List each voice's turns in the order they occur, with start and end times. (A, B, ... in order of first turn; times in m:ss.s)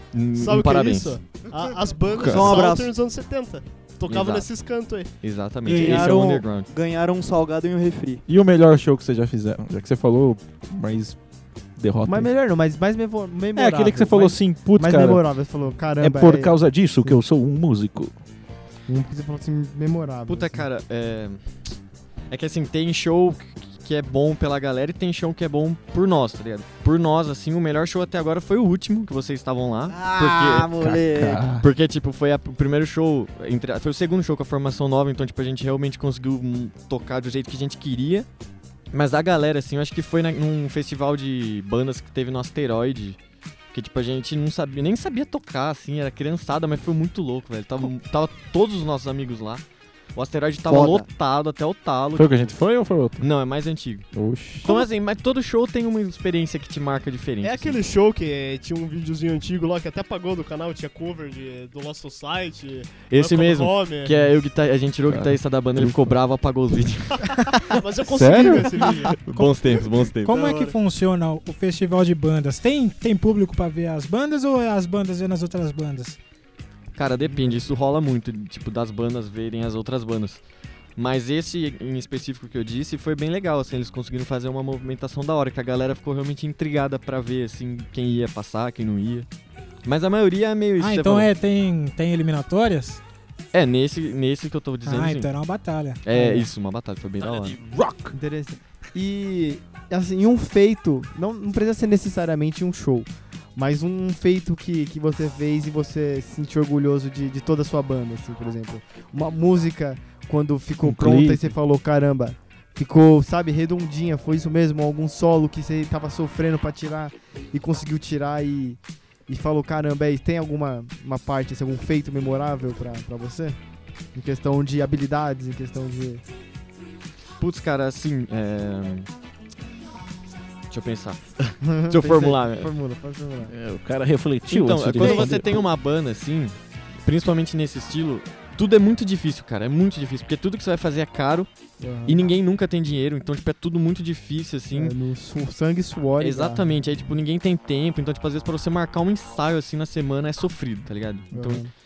0:00.1-0:01.2 A
0:00.4-0:05.1 B
0:02.1-0:02.9 C
0:02.2-0:02.5 D
0:04.1-0:04.5 A
0:05.2-0:06.7 A
0:05.6-0:08.2 C
0:05.7-0:06.1 D
0:08.2-0:11.2 D
0:11.8-0:12.3 D
0:12.0-0:17.2 E
0:13.5-0:15.2 D
0:16.0-0:18.1 D
0:18.9-0:20.6 E
0:20.3-0:21.4 A
0:22.3-0:30.8 A
0:29.9-0:31.4 C
0:30.8-0:31.6 D
0:31.6-0:38.3 A
0:38.9-0:43.2 A
0:43.7-0:49.6 A
0:50.1-0:52.5 A
0:50.6-0:51.0 C
0:52.2-0:53.3 D
0:53.2-0:54.1 A
0:54.1-0:54.8 D
0:54.6-0:57.8 A
0:57.4-1:04.2 B
1:03.1-1:07.4 A
1:05.1-1:06.1 D
1:07.6-1:09.2 B
1:08.0-1:09.0 D
1:09.2-1:10.5 A
1:09.3-1:09.6 F
1:10.2-1:16.2 F
1:10.3-1:10.7 B
1:17.0-1:20.4 A
1:17.3-1:17.6 E
1:21.0-1:29.3 A
1:29.8-1:31.3 A
1:30.8-1:33.0 F
1:33.5-1:35.3 A
1:34.8-1:36.0 F
1:36.0-1:37.6 A
1:37.2-1:38.1 D
1:38.1-2:03.6 E
1:50.8-1:51.5 D
2:04.1-2:06.2 E
2:07.4-2:09.1 A
2:10.7-2:12.7 A
2:11.6-2:13.5 E
2:13.5-2:15.6 D
2:14.5-2:21.5 A
2:15.0-2:15.3 C
2:21.8-2:22.3 E
2:22.0-2:25.0 A
2:24.7-2:26.7 E
2:26.2-2:31.7 A
2:31.3-2:31.7 E